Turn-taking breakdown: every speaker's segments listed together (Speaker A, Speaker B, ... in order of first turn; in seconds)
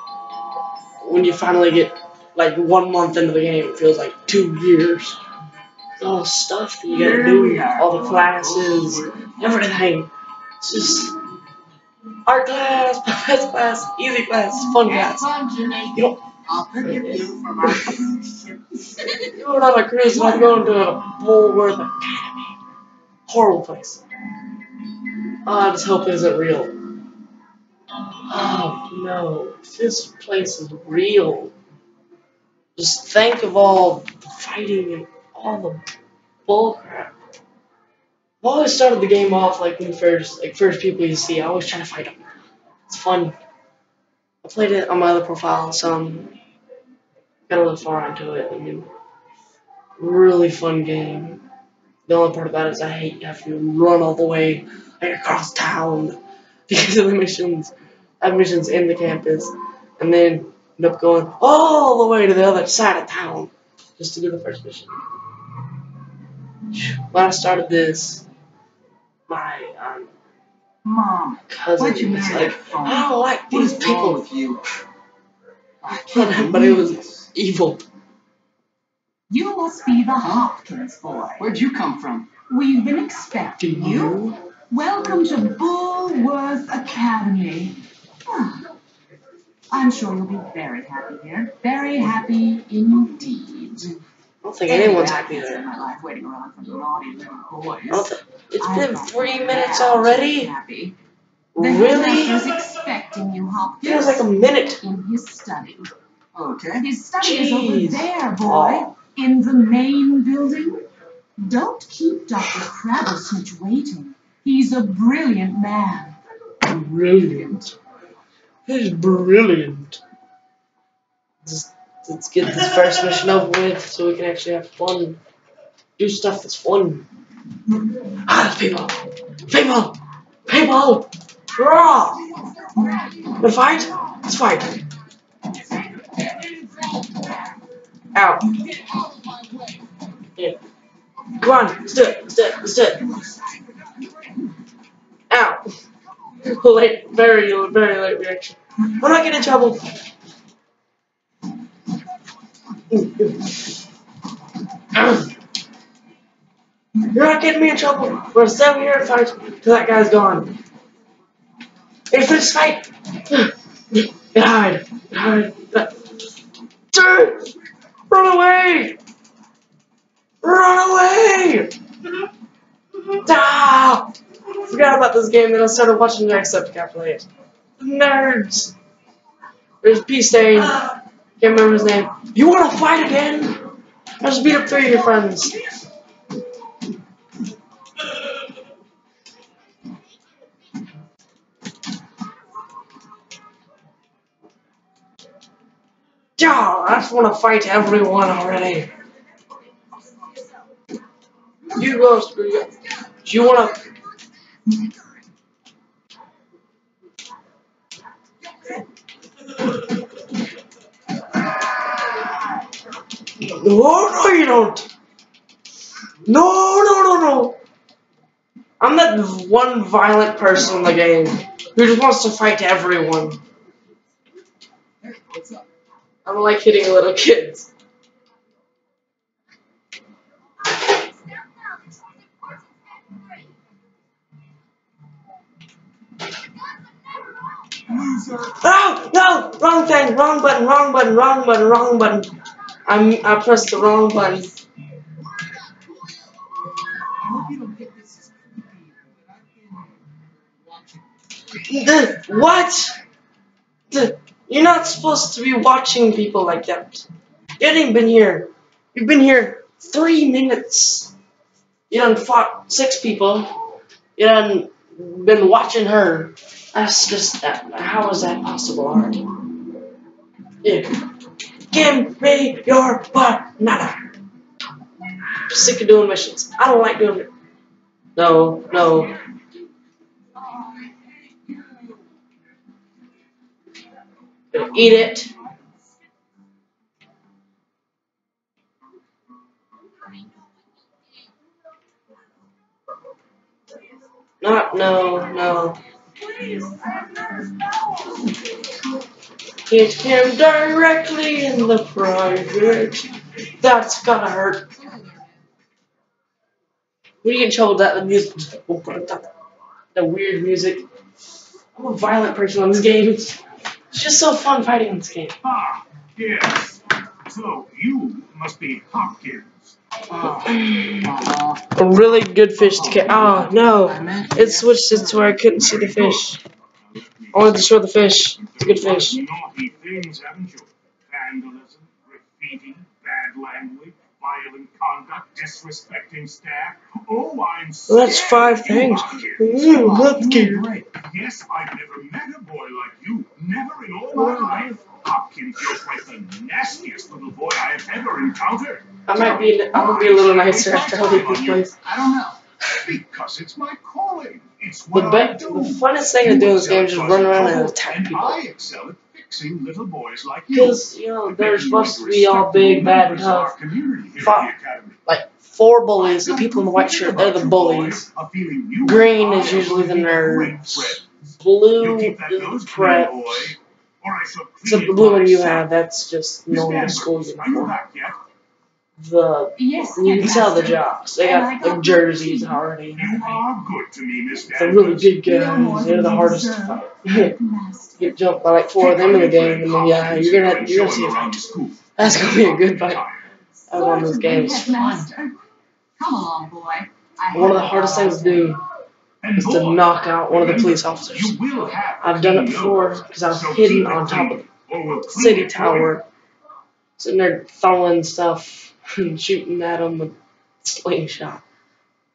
Speaker A: 1.0-5.2, 6.0-11.2, 12.3-15.3, 15.9-16.2, 16.8-17.9, 19.3-22.5, 23.3-24.0, 25.4-26.8, 28.3-31.5, 32.8-35.8, 36.5-37.1, 38.4-42.2, 42.9-43.4, 44.4-46.3, 47.5-48.9, 50.0-51.4, 52.1-64.9, 66.7-68.2, 69.3-70.1, 71.5-74.2, 76.1-77.8, 83.6-84.3, 94.4-95.7, 97.9-100.5, 101.5-102.5, 103.8-104.8, 107.2-108.9, 116.6-117.7, 118.7-120.0, 121.4-125.2, 126.0-127.1, 128.3-132.2, 133.4-134.8, 138.1-138.5, 141.4-143.1, 145.3-145.7, 146.4-149.8, 152.9-153.6, 154.9-155.3, 157.1-160.6, 162.1-166.0, 166.9-167.5, 168.1-169.0, 170.4-171.7, 173.2-177.3, 177.8-178.7, 179.8-183.6, 184.2-185.6, 196.4-198.9, 201.7-202.7, 203.2-203.8, 213.4-214.9, 216.3-217.6, 218.8-223.4, 226.2-227.7, 238.6-242.3, 242.9-244.5, 251.7-252.9, 253.9-257.1, 257.6-261.1, 261.9-263.6, 264.2-269.2, 270.6-270.9, 271.7-274.0, 275.4-277.3, 278.2-279.1, 284.5-285.3, 294.4-295.8, 299.7-304.7, 307.2-309.3, 309.9-310.9, 311.8-315.4, 320.4-321.1, 321.8-326.4, 327.3-329.2, 337.9-340.7, 349.1-351.8, 354.9-358.4, 360.5-363.5, 364.2-364.5, 365.1-368.1, 368.8-373.6, 374.6-377.7, 379.0-383.1, 384.6-387.3, 388.0-391.4, 392.0-393.0, 393.7-395.1, 397.3-398.6, 399.4-401.4, 402.0-404.5, 405.1-406.1, 407.0-411.4
Speaker B: 6.9-9.7, 136.1-137.2, 138.7-139.8, 247.3-249.9, 250.6-251.0, 296.2-297.7, 315.4-319.8, 325.5-326.3, 326.9-327.8, 328.4-340.1, 340.9-351.8, 352.6-365.0, 366.0-375.7, 376.5-378.2, 383.0-385.2, 388.8-393.3, 399.2-406.0
Speaker C: 14.9-15.3, 16.4-18.3, 70.8-74.6, 75.8-77.3, 81.4-82.3, 106.3-106.9, 225.0-225.7, 237.9-238.6, 247.2-247.7, 304.8-305.2, 320.1-321.7, 322.6-325.4, 339.8-340.9, 344.1-344.7, 351.8-352.4
Speaker D: 15.1-15.9, 79.3-81.5, 82.5-88.7, 89.7-94.0, 94.7-98.1, 98.6-101.0, 101.6-104.2, 104.8-105.9, 106.8-110.8, 111.4-116.2, 379.6-383.4, 385.2-388.1, 393.7-395.4, 396.0-398.6